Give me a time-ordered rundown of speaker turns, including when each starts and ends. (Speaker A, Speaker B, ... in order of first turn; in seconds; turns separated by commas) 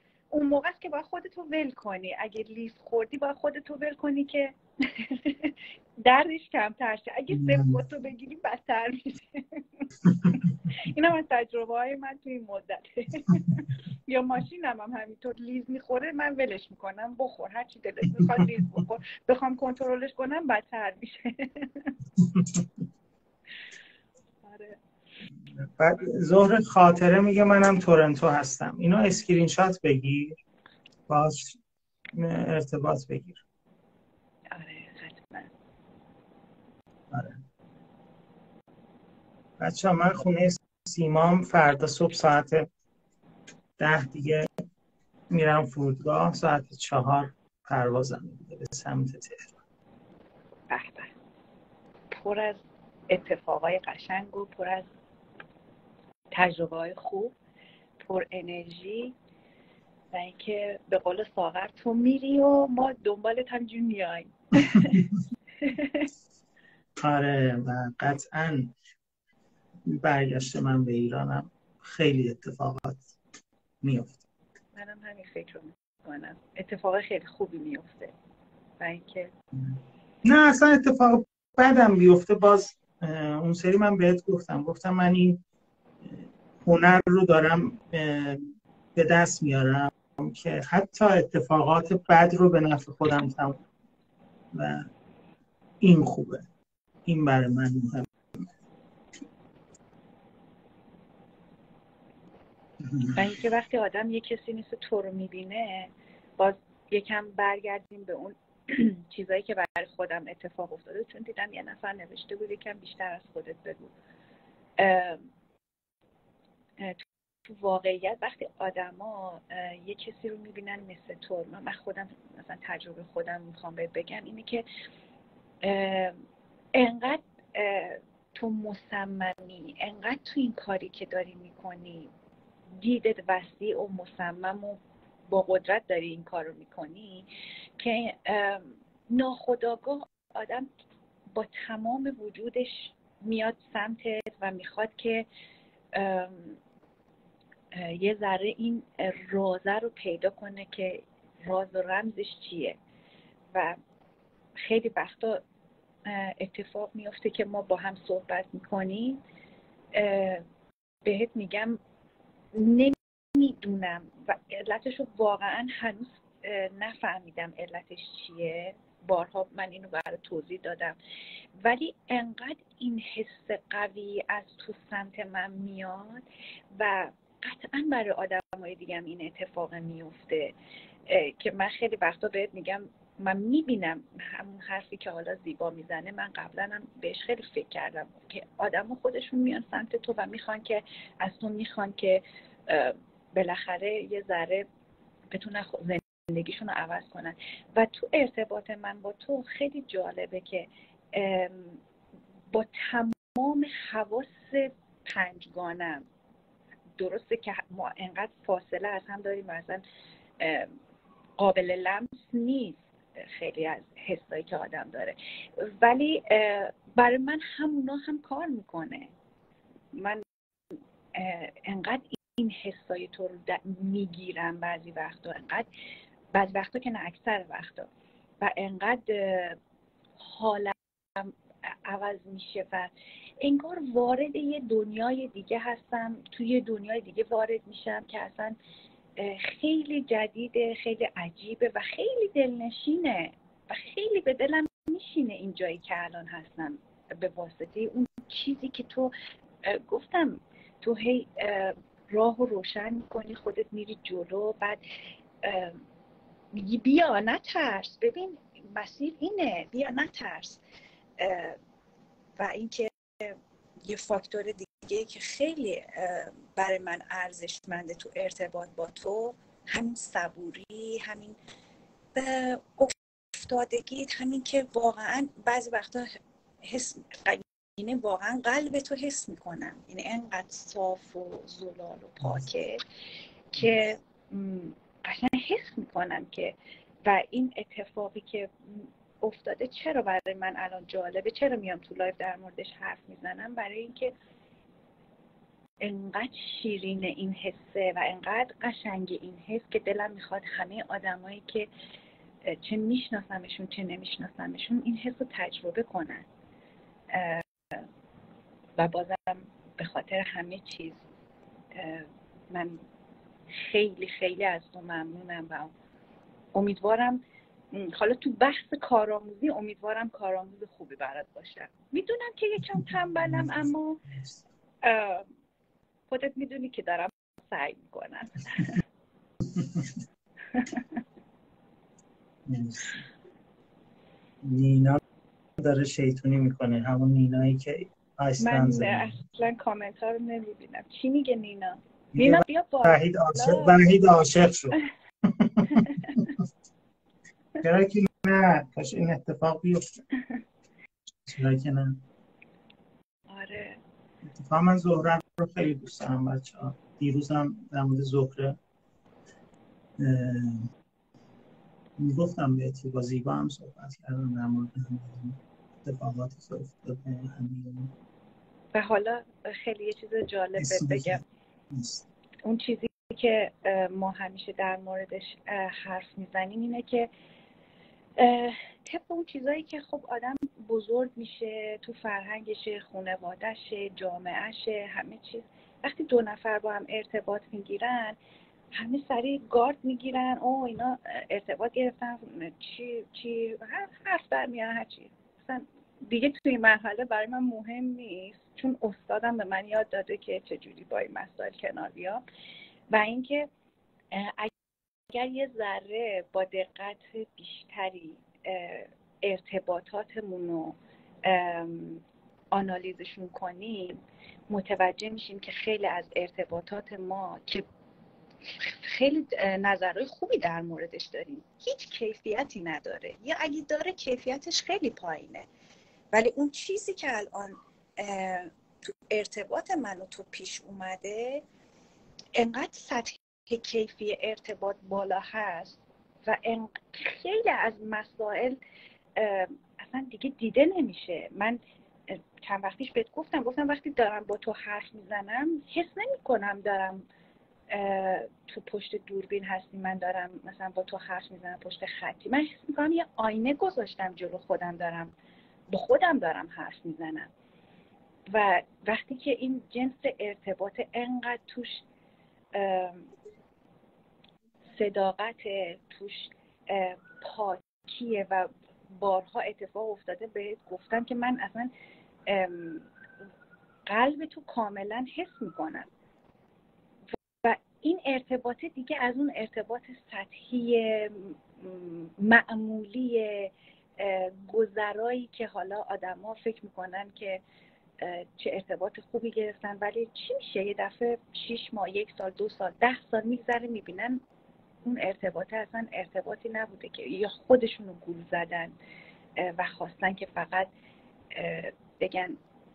Speaker A: 0.3-21.9, Speaker B: 7.3-7.8, Speaker B: 10.1-10.3, Speaker B: 18.2-18.6, Speaker B: 22.2-22.6, Speaker A: 24.4-24.8, Speaker B: 25.5-30.4, Speaker B: 31.1-31.6, Speaker B: 32.1-33.4, Speaker A: 34.5-35.5, Speaker B: 37.1-37.4, Speaker B: 39.6-42.7, Speaker B: 43.8-44.5, Speaker B: 45.3-49.6, Speaker A: 50.7-51.1, Speaker A: 52.1-54.9, Speaker A: 56.3-57.3, Speaker A: 58.0-59.1, Speaker A: 60.1-65.0, Speaker B: 64.7-65.2, Speaker A: 65.6-66.1, Speaker B: 67.0-68.7, Speaker B: 69.9-73.0, Speaker B: 73.8-74.2, Speaker A: 74.7-78.1, Speaker A: 78.8-79.3, Speaker B: 79.6-85.4, Speaker B: 86.0-93.6, Speaker B: 94.5-94.9, Speaker B: 95.8-96.5, Speaker B: 97.0-98.5, Speaker B: 102.8-103.2, Speaker A: 103.1-113.9, Speaker A: 114.8-115.3, Speaker A: 116.8-124.7, Speaker A: 125.6-126.2, Speaker A: 126.7-132.1, Speaker A: 132.8-140.7, Speaker A: 141.3-145.3, Speaker A: 145.9-146.6, Speaker A: 147.7-152.8, Speaker A: 153.5-153.8, Speaker A: 154.6-155.4, Speaker A: 156.0-159.2, Speaker A: 159.9-160.4, Speaker A: 161.0-161.8, Speaker A: 162.5-171.0, Speaker A: 171.6-180.5, Speaker A: 181.1-194.7, Speaker A: 195.3-201.8, Speaker A: 202.5-206.1, Speaker A: 207.0-209.8, Speaker A: 210.4-210.7, Speaker A: 211.4-219.1, Speaker A: 219.9-220.2, Speaker A: 221.1-225.7, Speaker A: 226.3-227.9, Speaker A: 228.4-229.6, Speaker A: 230.2-231.3, Speaker A: 231.8-238.6, Speaker A: 239.2-254.8, Speaker A: 255.4-255.8, Speaker A: 256.5-260.6, Speaker A: 261.2-261.6, Speaker A: 262.4-271.4, Speaker A: 272.1-282.8, Speaker A: 283.5-294.1, Speaker A: 295.8-301.7, Speaker A: 302.4-306.2, Speaker A: 307.1-307.9, Speaker A: 308.8-311.0, Speaker A: 311.7-312.8, Speaker A: 313.5-315.7, Speaker A: 316.5-324.0, Speaker B: 322.7-324.4, Speaker A: 324.8-325.3, Speaker A: 326.1-328.8, Speaker B: 329.5-330.0, Speaker A: 330.5-331.0, Speaker B: 332.5-333.0, Speaker B: 334.4-335.0, Speaker B: 335.6-339.1, Speaker A: 338.4-343.8, Speaker B: 342.1-346.3, Speaker A: 345.7-346.3, Speaker B: 347.6-350.0, Speaker B: 351.2-352.0, Speaker A: 353.3-353.8, Speaker B: 354.3-358.6, Speaker B: 360.0-360.7, Speaker B: 362.0-367.9, Speaker A: 368.7-371.2, Speaker B: 370.6-372.1, Speaker A: 372.4-377.1, Speaker A: 378.2-388.2, Speaker A: 388.7-402.2, Speaker A: 402.9-403.5, Speaker A: 404.1-404.5, Speaker A: 405.1-417.7, Speaker A: 418.5-425.4, Speaker A: 426.1-431.4, Speaker A: 432.4-438.6, Speaker A: 439.1-447.0, Speaker A: 447.7-455.1, Speaker A: 455.7-457.3, Speaker A: 458.3-461.8, Speaker A: 462.5-463.1, Speaker A: 464.7-471.7, Speaker A: 472.3-472.9, Speaker A: 473.9-475.9, Speaker A: 477.4-487.4, Speaker A: 488.0-494.2, Speaker A: 494.8-498.7, Speaker A: 499.4-500.7, Speaker A: 501.3-502.4